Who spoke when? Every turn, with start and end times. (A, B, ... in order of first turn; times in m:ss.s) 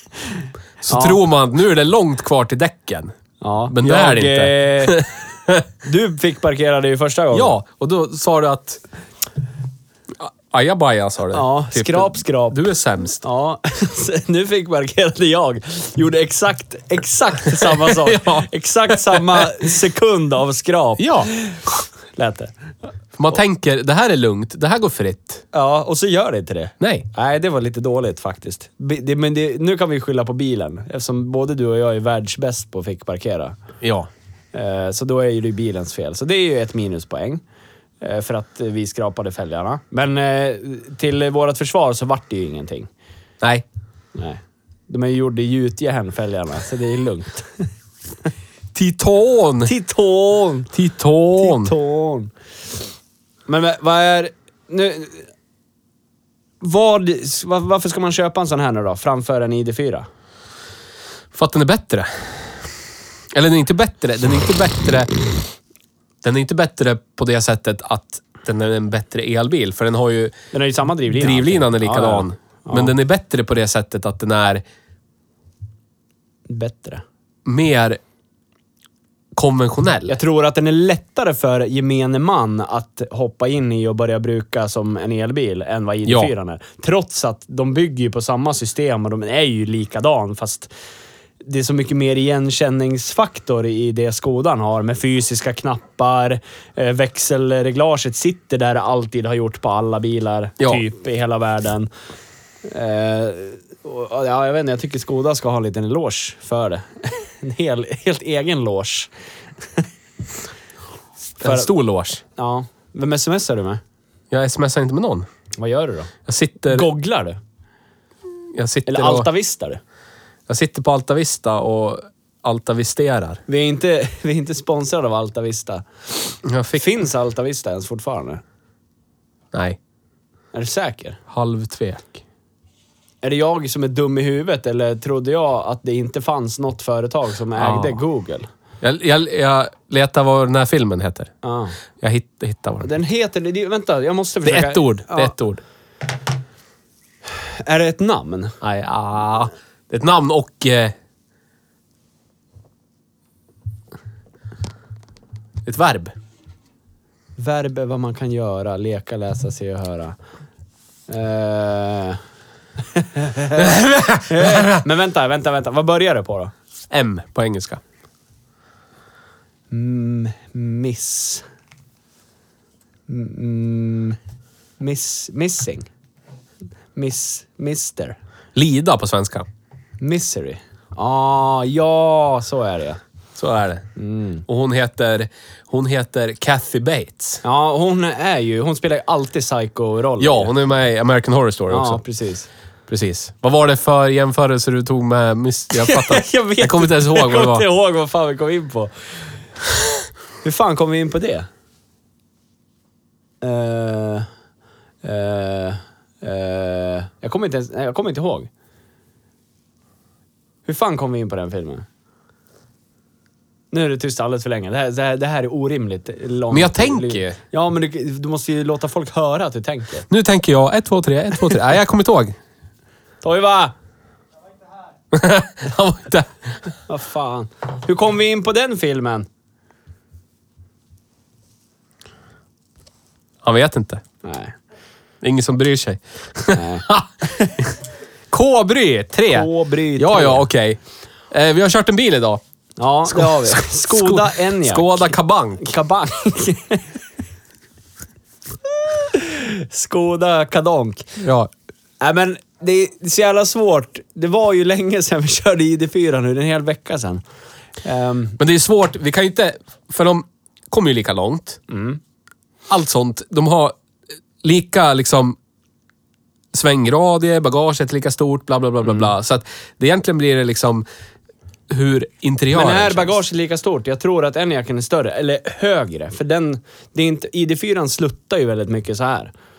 0:00.4-0:01.2 A
0:00.8-0:03.1 B
0:03.4-0:05.1 A
0:03.7-0:05.6 B
0:05.8-0:07.5 A
0:07.3-0:08.8 B
0:10.2-0:13.2 B
0:11.3-0:12.6 A
0:13.2-0:21.6 A
0:17.5-0:19.5 B
0:21.0-0:21.7 B
0:22.2-0:22.5 A
0:23.2-0:25.4 B
0:25.5-0:33.6 A
0:26.8-0:27.1 B
0:33.8-0:34.1 B
0:34.5-0:37.4 A
0:38.0-0:42.9 A
0:44.1-0:47.7 A
0:48.7-0:49.7 B
0:49.6-0:50.7 A
0:50.7-0:51.7 B
0:51.4-0:52.3 A
0:53.5-0:55.2 A
0:56.6-1:00.1 A
1:01.3-1:02.6 B
1:03.3-1:05.2 B
1:06.2-1:10.3 B
1:10.5-1:12.9 A
1:11.1-1:14.6 B
1:16.5-1:17.0 A
1:17.4-1:18.0 B
1:19.4-1:20.2 B
1:20.1-1:30.7 A
1:26.0-1:26.3 B
1:31.4-1:41.9 A
1:42.6-1:49.1 A
1:51.4-1:51.7 A
1:51.4-1:52.2 B
1:52.4-1:53.8 A
1:54.3-1:55.2 B
1:55.6-1:56.1 A
1:56.2-1:56.9 B
1:56.7-1:57.4 A
1:58.5-1:59.3 B
1:58.9-1:59.8 A
2:00.5-2:03.4 B
2:03.5-2:05.8 A
2:06.4-2:06.9 B
2:06.7-2:08.4 A
2:09.5-2:09.8 B
2:10.5-2:11.2 A
2:11.3-2:12.2 B
2:13.2-2:18.5 A
2:17.6-2:18.0 B
2:18.8-2:21.3 B
2:21.4-2:21.8 A
2:22.0-2:22.9 B
2:22.8-2:25.3 A
2:24.4-2:25.6 B
2:27.4-2:28.6 A
2:28.6-2:30.9 B
2:35.6-2:36.1 B
2:37.4-2:40.2 A
2:41.1-2:42.2 A
2:42.9-2:46.5 A
2:43.6-2:44.8 B
2:46.9-2:47.8 B
2:49.7-2:51.4 A
2:53.1-2:54.2 A
2:54.8-2:55.9 A
2:56.9-2:58.2 A
2:58.5-2:59.5 B
3:00.0-3:03.0 A
3:03.4-3:03.9 B
3:04.0-3:04.4 A
3:04.4-3:07.4 B
3:07.4-3:10.5 A
3:10.2-3:12.0 B
3:11.7-3:12.5 A
3:12.9-3:17.6 B
3:15.7-3:18.9 A
3:20.4-3:21.5 A
3:23.4-3:24.3 A
3:25.0-3:28.5 A
3:30.6-3:31.8 A
3:33.7-3:40.1 A
3:36.5-3:37.4 B
3:40.1-3:42.4 B
3:43.2-3:43.7 A
3:45.1-3:46.6 B
3:46.9-3:49.3 A
3:53.4-3:54.0 B
3:54.2-3:54.5 A
3:55.2-3:57.1 B
3:56.5-3:57.5 A
3:58.3-4:00.8 B
3:59.3-4:00.4 A
4:01.3-4:02.4 B
4:02.8-4:06.8 A
4:03.1-4:05.7 B
4:08.8-4:11.2 A
4:11.2-4:11.5 B
4:12.0-4:17.2 A
4:17.8-4:18.4 A
4:18.4-4:21.6 B
4:21.7-4:22.0 A
4:22.7-4:23.8 B
4:24.4-4:25.4 B
4:26.5-4:30.8 B
4:31.7-4:33.2 B
4:32.5-4:39.3 A